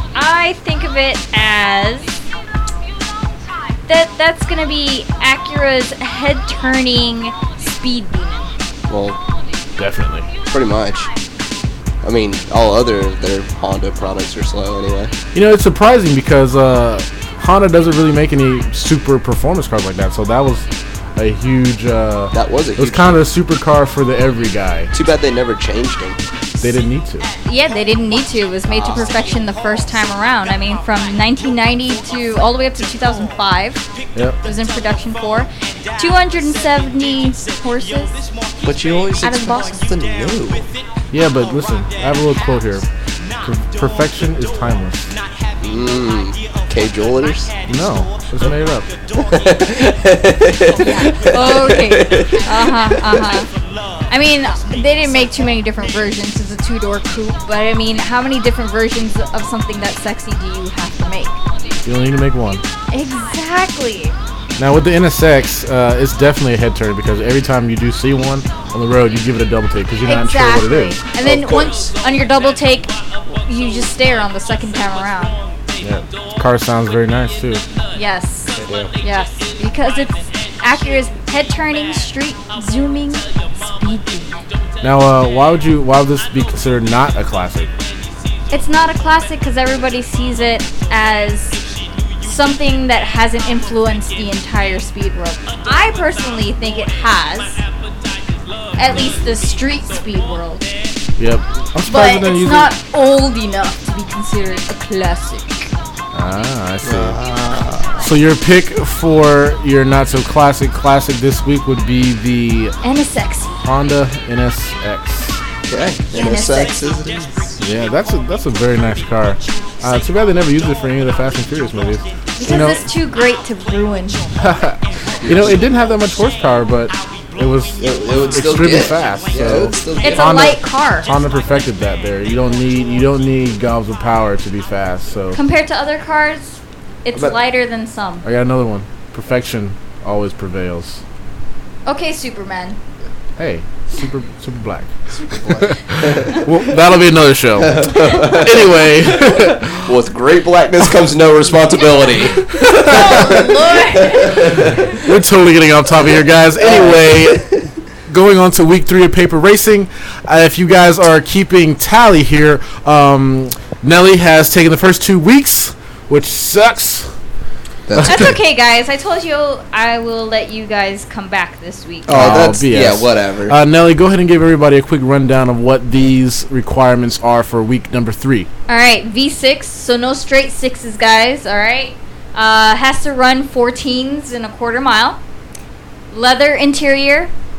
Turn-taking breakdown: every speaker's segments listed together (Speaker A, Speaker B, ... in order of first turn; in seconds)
Speaker A: 0.1-2.2, 3.9-8.5, 27.4-33.8, 34.4-38.2, 39.2-39.8, 50.8-53.5, 54.1-61.4, 62.9-64.2, 70.0-75.4, 77.9-84.5, 88.5-91.6, 92.2-97.6, 98.8-100.7, 101.9-105.7, 112.8-113.7, 116.1-116.8, 122.4-124.3, 130.0-131.1, 135.3-138.2, 141.9-142.8, 152.7-154.5, 168.0-172.2, 178.7-185.2, 186.1-187.3
Speaker B: 8.9-9.2, 10.5-11.1, 12.0-15.1, 22.3-23.3, 24.9-26.2, 28.7-29.2, 38.6-40.7, 45.6-47.5, 49.1-53.4, 71.2-71.9, 78.5-78.9, 106.8-108.0, 115.7-117.6, 125.2-125.7, 127.8-130.4, 145.1-146.5, 147.6-155.0, 156.6-157.7, 167.9-168.4, 172.1-173.6
Speaker C: 9.8-10.3, 15.3-24.9, 26.6-27.3, 41.1-42.9, 43.4-45.1, 47.6-48.9, 61.9-62.6, 64.6-71.0, 75.8-77.7, 84.8-87.7, 98.8-99.2, 101.2-102.7, 106.1-107.2, 108.0-112.8, 113.6-115.4, 117.6-122.8, 124.4-135.4, 138.2-141.0, 143.4-149.9, 152.6-153.2, 154.9-157.4, 158.1-167.1, 167.9-168.3, 172.1-178.5